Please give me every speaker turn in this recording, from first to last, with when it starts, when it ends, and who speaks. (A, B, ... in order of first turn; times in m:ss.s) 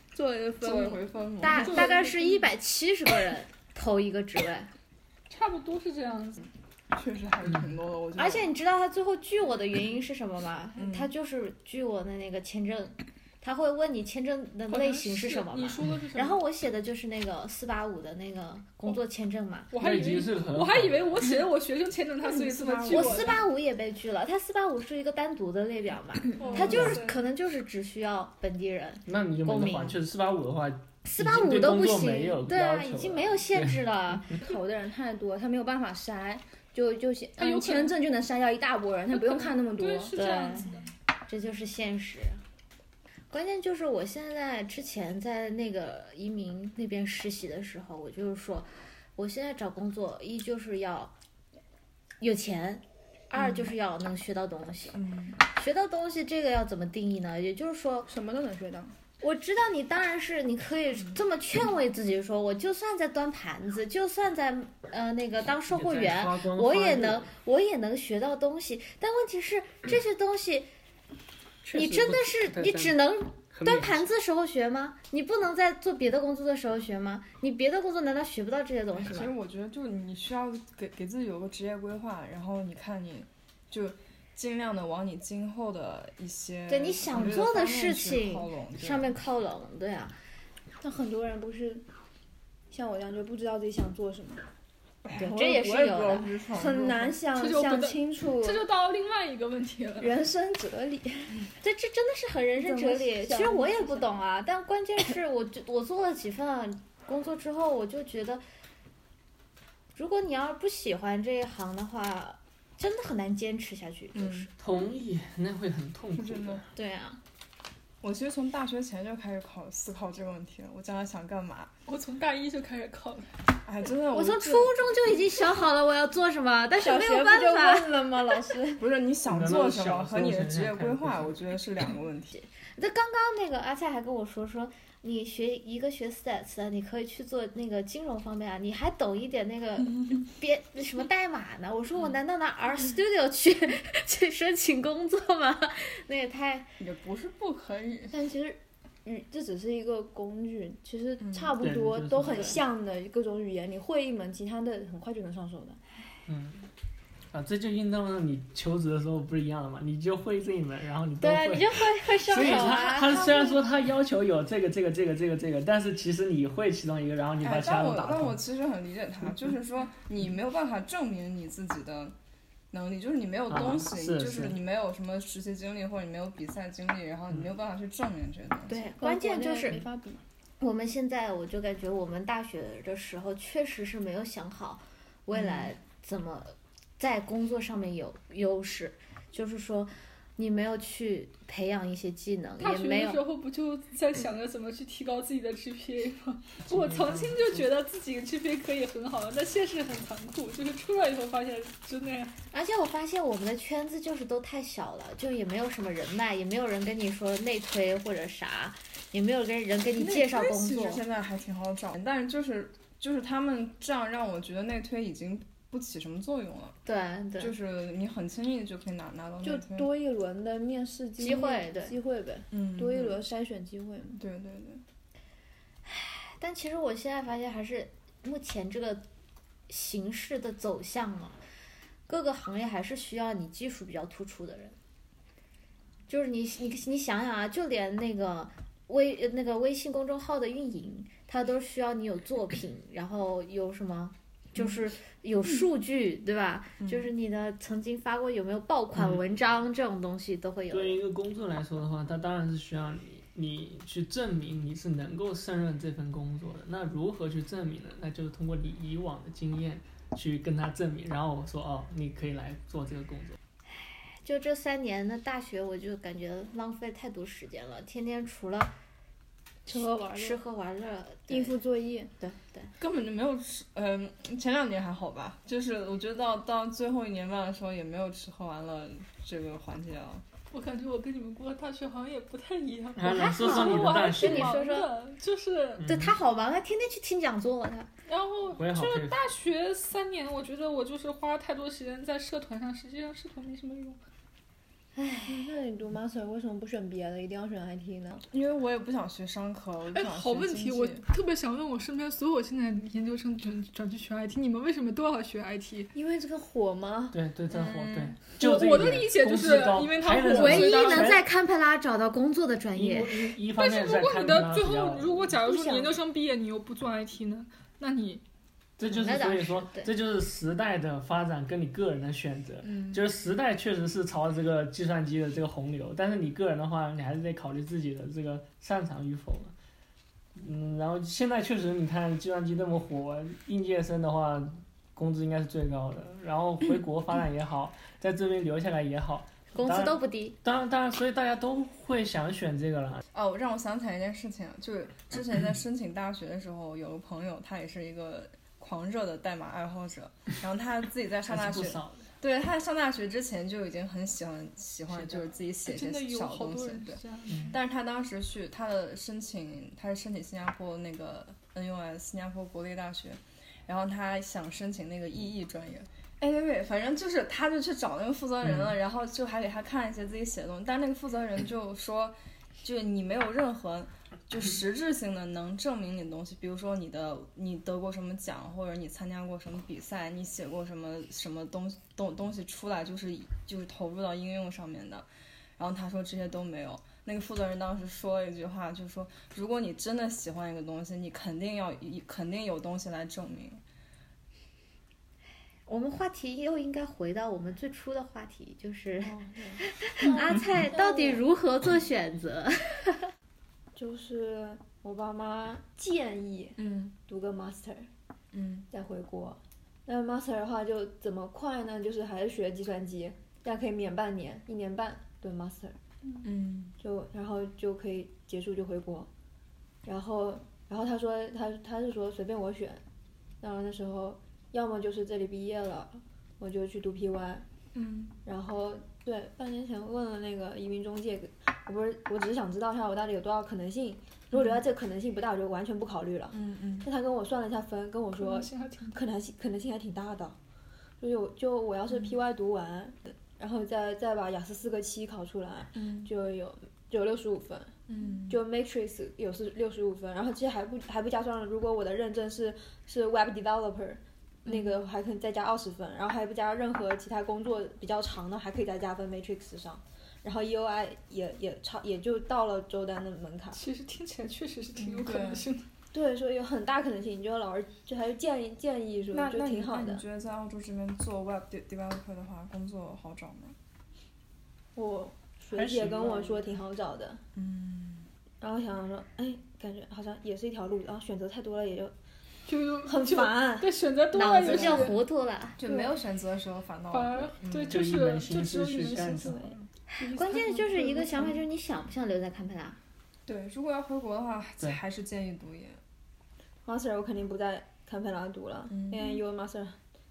0:00.1-0:01.0 A
0:00.6-0:01.9 B
0:01.4-0:04.7 C
0:01.5-0:02.5 D
0:05.3-0:06.5 D
0:06.9-0:08.5 B
0:08.2-0:19.7 C
0:10.8-0:11.1 B
0:14.7-0:16.4 D
0:19.7-0:23.4 D
0:19.8-0:21.2 E
0:22.2-0:23.4 B
0:22.9-0:30.0 C
0:26.4-0:27.2 D
0:26.4-0:26.9 B
0:26.7-0:27.0 E
0:29.1-0:34.4 E
0:31.0-0:34.3 C
0:34.4-0:40.1 A
0:37.4-0:38.0 D
0:39.1-0:40.9 D
0:40.1-0:40.7 C
0:41.3-0:42.4 C
0:43.3-0:51.1 C
0:52.2-0:58.1 C
0:53.3-0:53.7 B
0:54.9-0:55.4 B
0:58.2-0:58.9 A
0:59.2-1:10.7 C
1:05.7-1:07.3 E
1:11.6-1:13.0 E
1:11.7-1:19.3 C
1:13.5-1:14.1 E
1:19.0-1:29.1 B
1:26.7-1:30.2 C
1:30.8-1:31.8 A
1:32.7-1:34.4 A
1:35.0-1:37.2 B
1:35.2-1:36.3 C
1:36.5-1:38.7 A
1:37.3-1:40.1 D
1:40.0-1:41.5 A
1:41.6-1:48.4 C
1:42.6-1:44.2 A
1:49.9-1:54.5 C
1:54.1-1:54.5 B
1:54.6-1:56.6 E
1:56.1-1:56.6 B
1:56.7-1:57.2 C
1:58.0-2:01.7 B
2:01.9-2:03.4 D
2:03.6-2:04.9 B
2:04.1-2:08.6 C
2:06.8-2:08.8 A
2:08.8-2:12.3 B
2:09.2-2:11.3 E
2:12.4-2:26.7 C
2:26.8-2:28.1 B
2:28.1-2:35.8 A
2:31.2-2:31.6 B
2:31.6-2:32.6 E
2:32.3-2:32.5 C
2:36.2-2:36.7 E
2:37.3-2:48.4 E
2:41.2-2:43.2 C
2:42.4-2:43.6 A
2:47.4-2:52.1 B
2:52.7-2:58.8 B
2:53.5-2:54.6 E
2:58.7-2:59.8 C
2:59.0-3:00.2 A
3:00.6-3:13.2 C
3:05.3-3:05.7 B
3:12.6-3:22.4 D
3:16.7-3:17.7 E
3:22.5-3:31.0 C
3:30.0-3:36.8 B
3:36.8-3:37.5 C
3:37.4-3:39.9 B
3:39.4-3:44.2 A
3:41.2-3:42.0 C
3:42.5-3:43.2 B
3:44.2-3:44.8 B
3:45.8-3:49.0 C
3:49.7-3:51.4 C
3:52.1-3:54.8 C
3:56.1-4:11.0 C
4:06.8-4:07.1 B
4:10.7-4:23.4 E
4:23.7-4:28.7 C
4:29.7-4:30.4 A
4:29.7-4:31.6 C
4:31.3-4:32.1 A
4:32.2-4:32.7 C
4:32.8-4:40.2 B
4:40.5-4:45.8 D
4:43.0-4:44.6 E
4:43.0-4:44.9 C
4:45.8-4:46.1 E
4:45.8-4:47.9 C
4:48.1-4:54.0 D
4:48.6-4:49.2 E
4:55.0-4:55.5 C
4:55.3-4:58.2 A
4:58.3-5:01.0 B
4:59.9-5:05.9 D
5:05.9-5:07.2 A
5:07.1-5:11.2 E
5:07.5-5:08.2 B
5:08.3-5:11.2 D
5:10.2-5:13.3 C
5:12.7-5:15.4 E
5:13.5-5:18.2 D
5:15.5-5:15.9 A
5:18.8-5:29.5 E
5:18.9-5:19.9 C
5:22.6-5:23.0 B
5:30.4-5:43.0 E
5:39.5-5:40.4 C
5:43.1-6:25.0 B
5:51.3-5:52.1 E
5:55.6-5:57.6 D
5:57.3-5:57.5 E
6:08.4-6:08.7 E
6:25.6-6:33.6 B
6:35.6-6:43.1 C
6:39.0-6:40.2 B
6:40.0-6:41.2 A
6:43.7-6:47.9 A
6:46.6-6:46.9 B
6:48.3-6:48.7 B
6:48.7-6:56.2 A
6:56.2-6:56.7 B
6:56.8-6:59.1 A
6:59.8-7:02.8 A
7:03.4-7:07.4 A
7:07.7-7:08.2 B
7:08.2-7:20.4 A
7:14.3-7:14.6 B
7:16.3-7:16.9 B
7:18.2-7:18.9 D
7:21.0-7:27.7 A
7:21.9-7:22.2 B
7:25.7-7:26.1 B
7:27.9-7:28.4 B
7:28.3-7:43.6 A
7:34.4-7:34.8 B
7:43.5-7:45.7 D
7:44.8-7:45.5 B
7:45.9-7:50.0 A
7:49.1-7:53.5 B
7:54.7-7:57.2 A
7:55.5-7:56.4 E
7:57.3-7:58.1 B
7:58.4-8:01.9 A
8:02.4-8:05.0 D
8:02.8-8:03.7 A
8:04.1-8:05.6 C
8:04.4-8:04.9 B
8:05.6-8:07.8 B
8:05.6-8:06.0 A
8:06.9-8:09.4 D
8:07.7-8:09.6 E
8:09.1-8:09.6 A
8:09.9-8:12.8 C
8:10.0-8:11.3 D
8:13.2-8:15.8 B
8:16.6-8:19.8 A
8:18.7-8:19.2 B